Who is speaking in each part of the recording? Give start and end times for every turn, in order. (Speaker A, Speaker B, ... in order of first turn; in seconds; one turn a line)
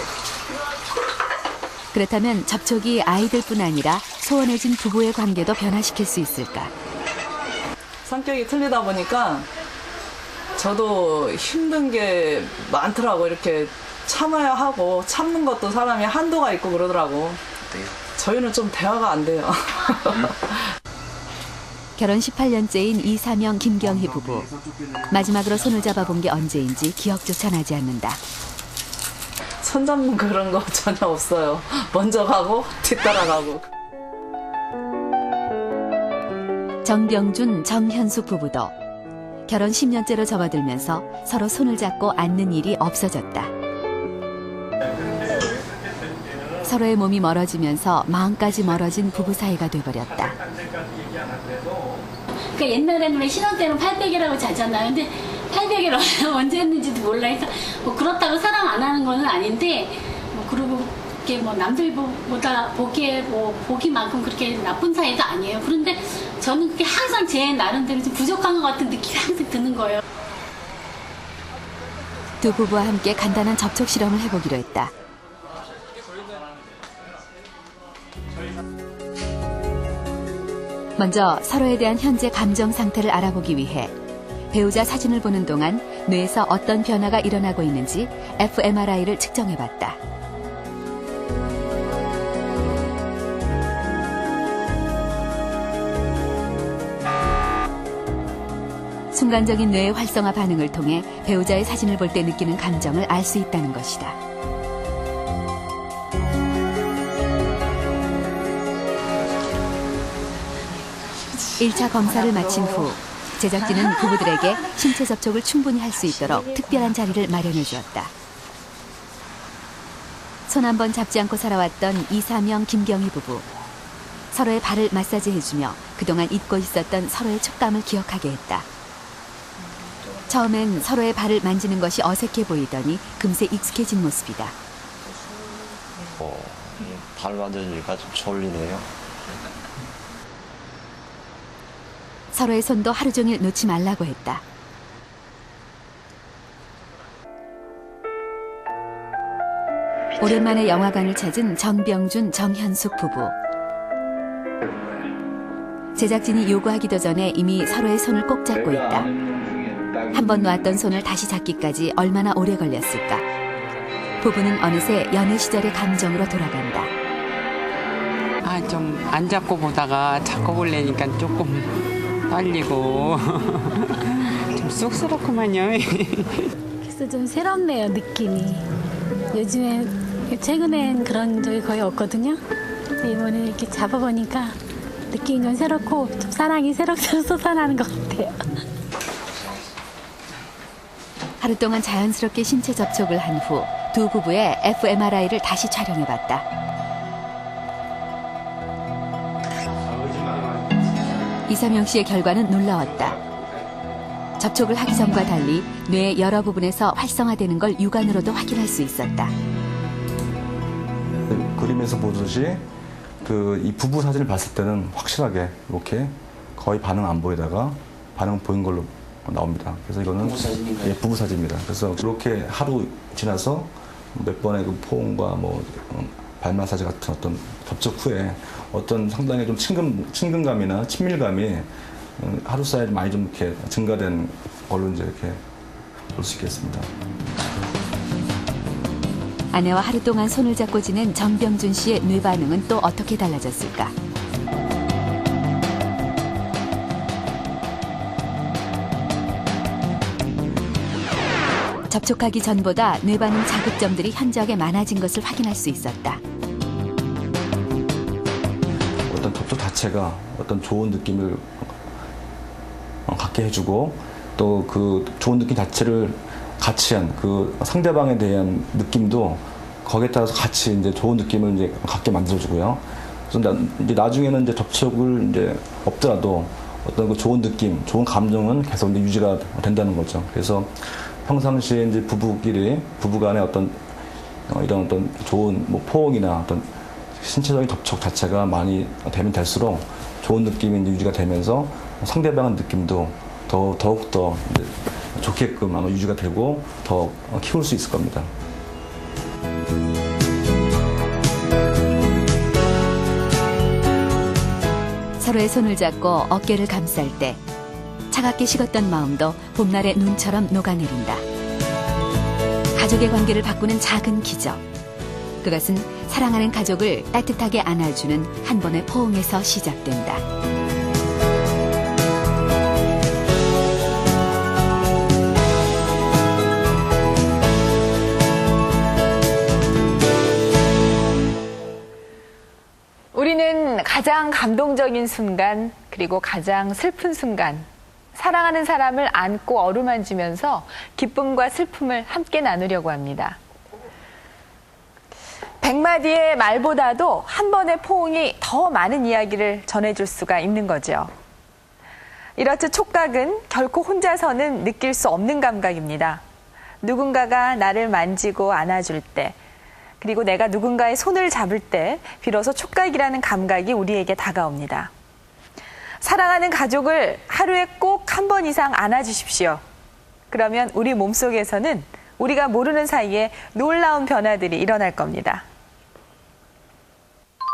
Speaker A: 1.9-6.7
Speaker B: 8.0-9.5
Speaker B: 10.6-17.4
Speaker B: 18.1-20.6
Speaker A: 22.0-24.5
Speaker A: 25.1-28.2
Speaker B: 29.6-33.6
Speaker A: 36.8-38.7
Speaker A: 39.5-43.5
Speaker A: 46.6-50.4
Speaker C: 52.5-70.0
Speaker A: 72.4-74.9
Speaker A: 81.0-83.9
Speaker A: 84.5-90.0
Speaker A: 99.1-104.2
Speaker A: 111.6-118.1
Speaker A: 120.5-123.5
Speaker A: 124.3-128.7
Speaker A: 130.3-134.5
Speaker D: 136.2-138.9
Speaker A: 142.3-144.4
Speaker A: 150.2-153.3
Speaker A: 155.9-159.1
Speaker E: 159.3-159.8
Speaker A: 160.1-163.2
Speaker A: 164.2-166.9
Speaker F: 168.4-171.7
Speaker F: 172.3-173.5
Speaker F: 174.6-176.4
Speaker C: 176.8-178.6
Speaker C: 179.3-182.4
Speaker C: 183.0-184.5
Speaker C: 185.1-188.4
Speaker A: 191.4-196.4
Speaker A: 201.5-203.2
Speaker A: 204.4-209.3
Speaker G: 211.3-212.6
Speaker G: 213.2-235.4
Speaker G: 236.1-236.9
Speaker A: 239.5-243.9
Speaker A: 251.9-256.2
Speaker G: 259.1-261.7
Speaker G: 263.1-280.7
Speaker G: 281.2-283.8
Speaker G: 284.5-286.6
Speaker G: 287.2-298.3
Speaker A: 305.2-307.4
Speaker A: 308.1-311.2
Speaker A: 312.8-314.6
Speaker A: 315.4-320.2
Speaker E: 333.1-343.4
Speaker E: 345.6-351.1
Speaker E: 352.4-356.2
Speaker E: 356.8-359.4
Speaker E: 360.0-364.9
Speaker E: 366.0-369.6
Speaker E: 370.3-375.4